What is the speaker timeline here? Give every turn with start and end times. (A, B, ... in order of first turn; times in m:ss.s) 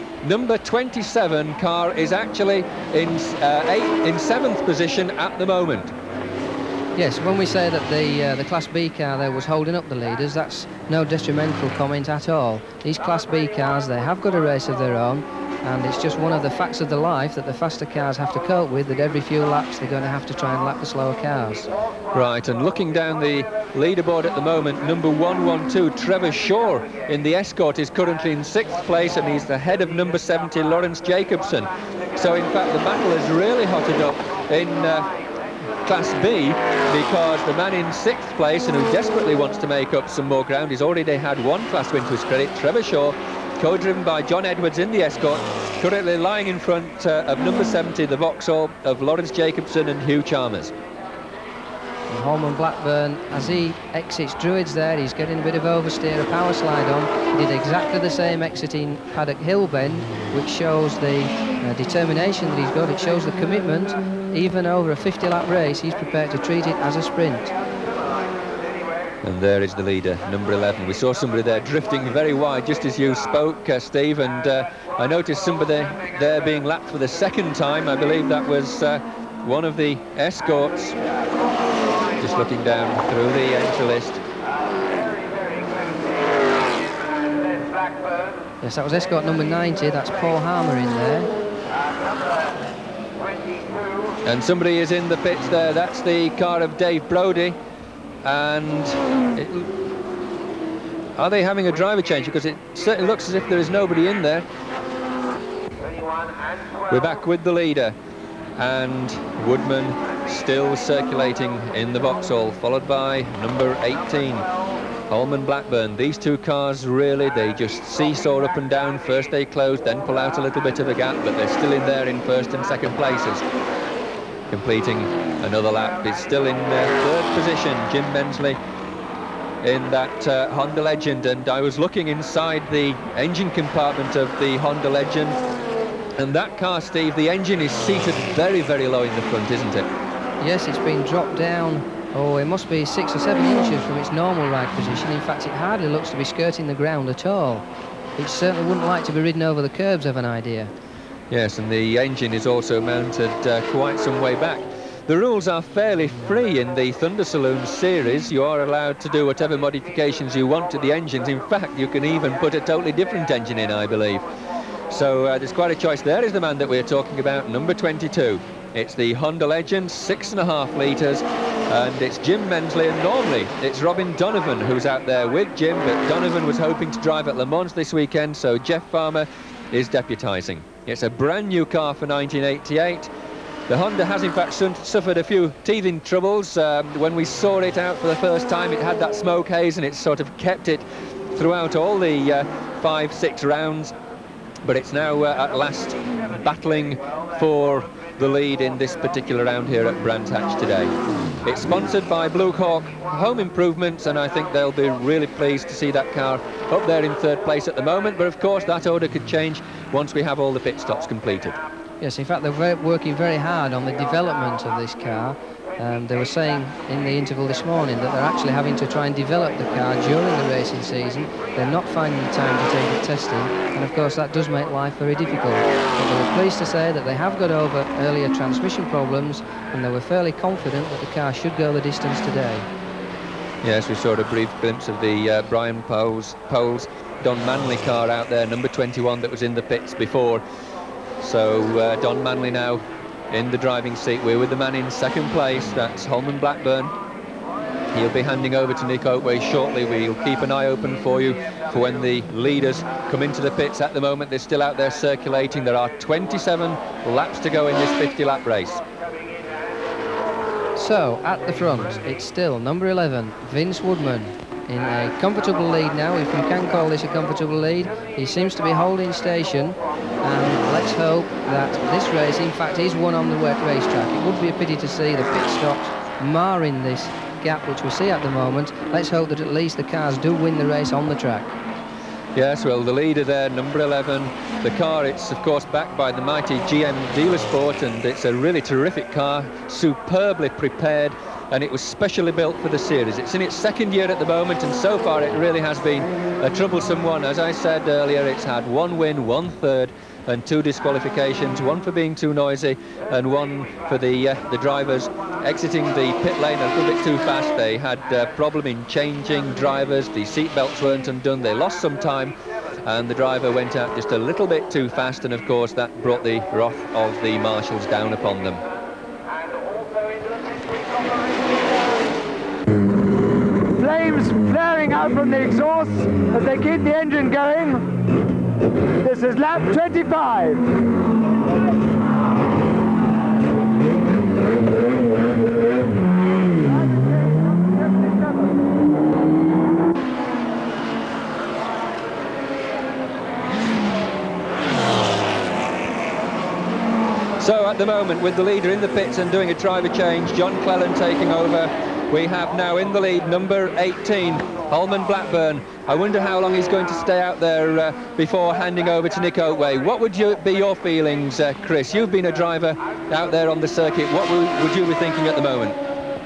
0:00.2-0:05.9 A
0:07.0-0:21.7 B
0:22.1-0:35.1 A
0:35.8-0:50.7 A
0:52.1-1:07.5 B
1:09.2-1:21.0 A
1:22.2-1:24.2 A
1:28.6-1:31.3 B
1:34.2-1:37.6 A
1:38.2-1:39.7 A
1:41.2-1:44.4 A
1:46.9-1:48.0 A
1:48.6-1:54.5 A
1:55.1-2:03.4 A
2:04.5-2:08.6 A
2:09.6-2:15.4 A
2:16.2-2:19.9 A
2:20.4-2:27.6 B
2:28.2-2:30.7 B
2:31.3-2:44.2 A
2:44.9-3:03.1 A
3:03.7-3:13.9 A
3:14.6-3:20.9 A
3:21.4-3:31.6 A
3:32.0-3:52.7 B
3:53.6-4:00.4 A
4:01.2-4:06.9 A
4:07.9-4:18.8 A
4:20.8-4:41.6 B
4:42.4-5:18.6 A
5:23.8-5:28.0 C
5:29.0-5:30.7 C
5:47.4-6:05.8 A